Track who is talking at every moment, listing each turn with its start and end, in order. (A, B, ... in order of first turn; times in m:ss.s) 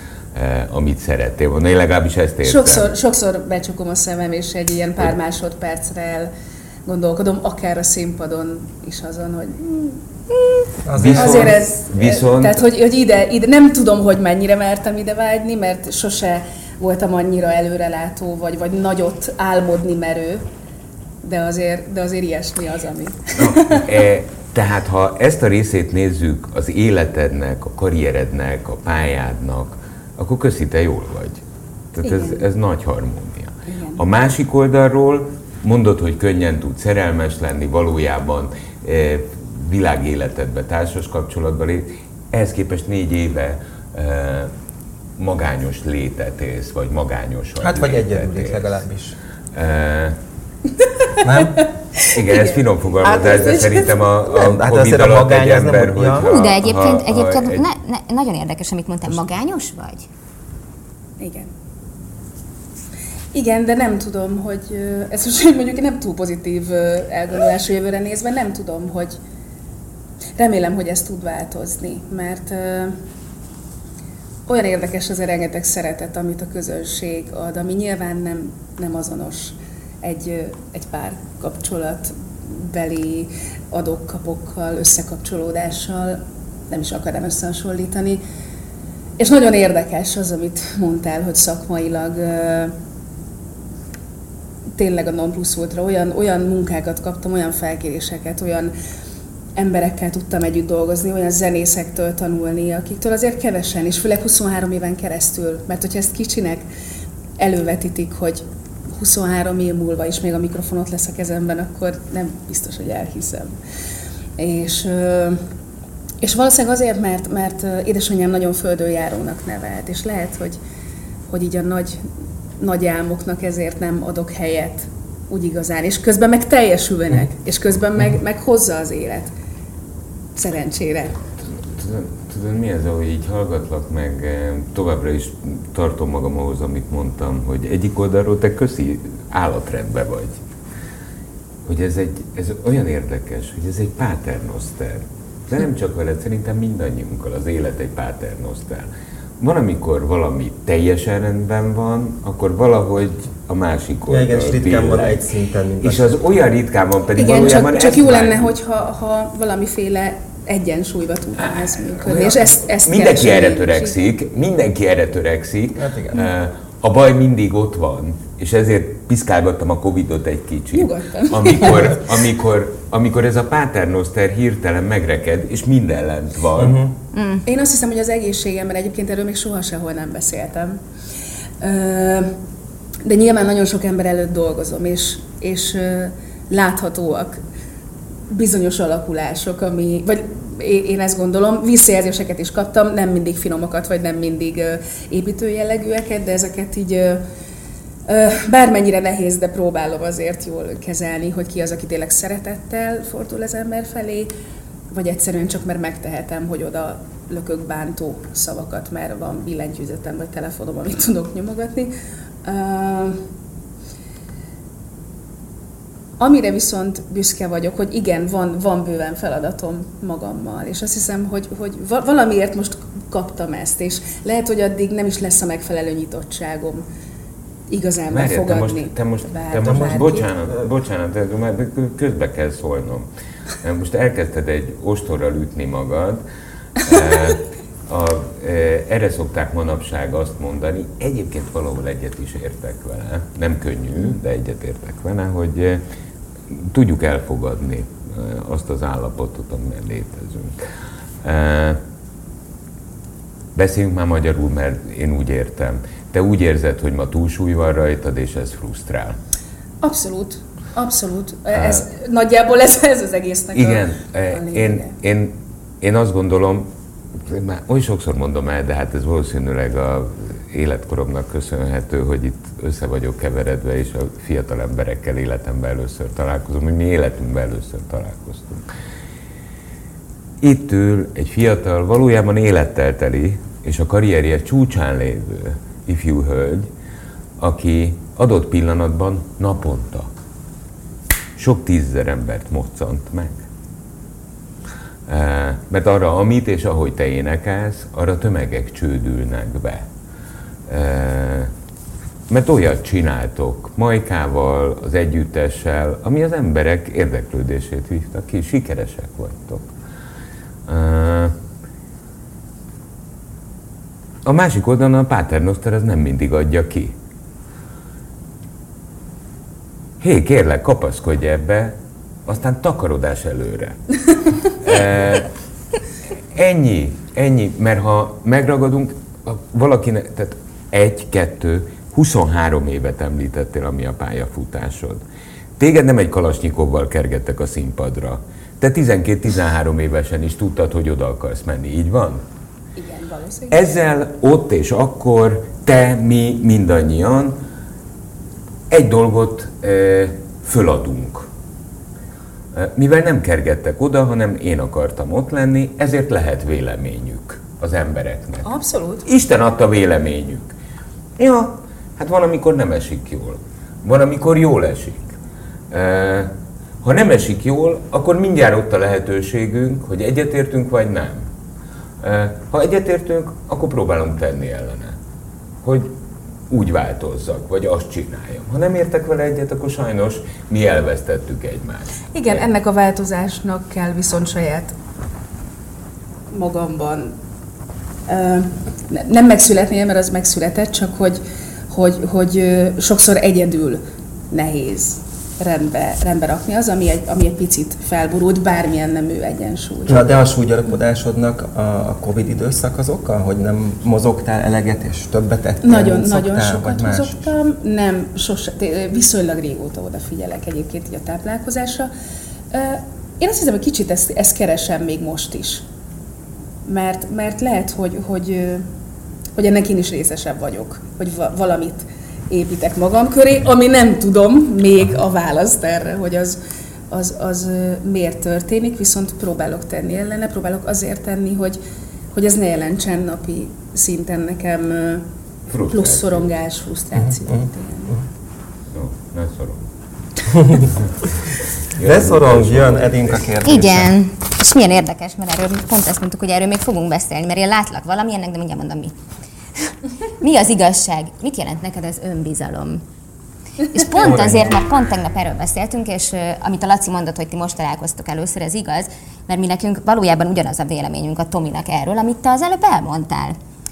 0:00.4-0:02.9 A
0:02.4-0:06.3 B
0:06.9-0:20.5 B
0:10.8-0:11.6 C
0:11.0-0:12.6 A
0:21.2-0:23.9 B
0:23.4-0:31.4 A
0:31.9-0:44.5 A
0:32.0-0:32.4 B
0:33.7-0:34.0 B
0:45.2-0:48.7 A
0:47.6-0:49.2 C
0:49.5-0:50.2 A
0:51.2-0:51.6 C
0:52.0-0:57.6 A
0:52.2-0:54.0 B
0:54.3-0:56.3 C
0:56.2-1:00.1 D
1:01.2-1:01.5 B
1:03.3-1:09.2 B
1:10.4-1:13.0 B
1:14.5-1:28.2 B
1:29.2-1:32.7 B
1:34.8-1:38.7 B
1:39.6-1:46.6 B
1:47.4-1:48.4 B
1:49.0-1:53.5 B
1:54.4-1:55.4 B
1:56.2-2:00.6 B
2:01.3-2:02.0 B
2:02.6-2:09.3 B
2:10.4-2:11.2 B
2:11.6-2:20.4 A
2:21.6-2:35.2 A
2:34.1-2:36.1 C
2:35.8-2:38.5 A
2:37.2-2:44.1 B
2:41.4-2:56.8 A
2:45.7-2:46.3 C
2:50.7-2:52.0 B
2:56.6-2:56.9 C
2:57.1-2:57.4 D
2:57.5-3:00.8 B
3:01.6-3:02.3 B
3:03.0-3:07.4 B
3:08.3-3:17.2 B
3:18.1-3:24.3 B
3:24.9-3:31.9 B
3:32.4-3:33.2 B
3:36.2-3:46.8 B
3:47.7-3:50.3 B
3:48.1-3:53.1 A
3:49.6-3:50.0 C
3:53.6-3:56.2 A
3:56.8-4:05.8 A
4:06.5-4:10.6 A
4:11.2-4:11.8 A
4:13.6-4:19.2 A
4:19.8-4:24.9 B
4:21.5-4:21.8 A
4:23.5-4:38.6 A
4:40.4-4:46.7 A
4:47.4-4:50.1 A
4:51.4-4:53.4 A
4:55.1-4:59.9 A
5:00.7-5:01.5 A
5:02.3-5:09.7 A
5:10.7-5:11.3 A
5:14.2-5:17.0 A
5:20.0-5:23.9 A
5:24.4-5:25.3 A
5:26.3-5:35.0 A
5:35.6-5:42.2 A
5:42.8-5:43.7 B
5:43.5-5:47.4 A
5:48.7-5:51.3 A
5:52.5-5:58.5 A
5:58.4-5:59.1 B
5:59.0-6:00.5 A
6:01.2-6:05.1 A
6:05.7-6:06.3 A
6:06.8-6:11.3 A
6:12.0-6:15.0 A
6:15.6-6:15.9 A
6:16.5-6:22.4 A
6:22.1-6:24.7 B
6:26.3-6:27.1 B
6:28.1-6:40.1 B
6:39.9-6:47.3 C
6:45.6-6:51.9 B
6:52.5-6:55.6 B
6:56.6-6:58.6 B
6:59.4-7:06.4 B
7:06.9-7:11.6 B
7:12.1-7:15.0 B
7:15.5-7:16.3 A
7:15.7-7:18.0 B
7:18.7-7:19.6 A
7:20.3-7:20.7 C
7:21.6-7:23.3 A
7:21.8-7:23.9 C
7:23.4-7:28.9 D
7:30.2-7:32.8 D
7:33.6-7:43.4 D
7:34.0-7:34.5 C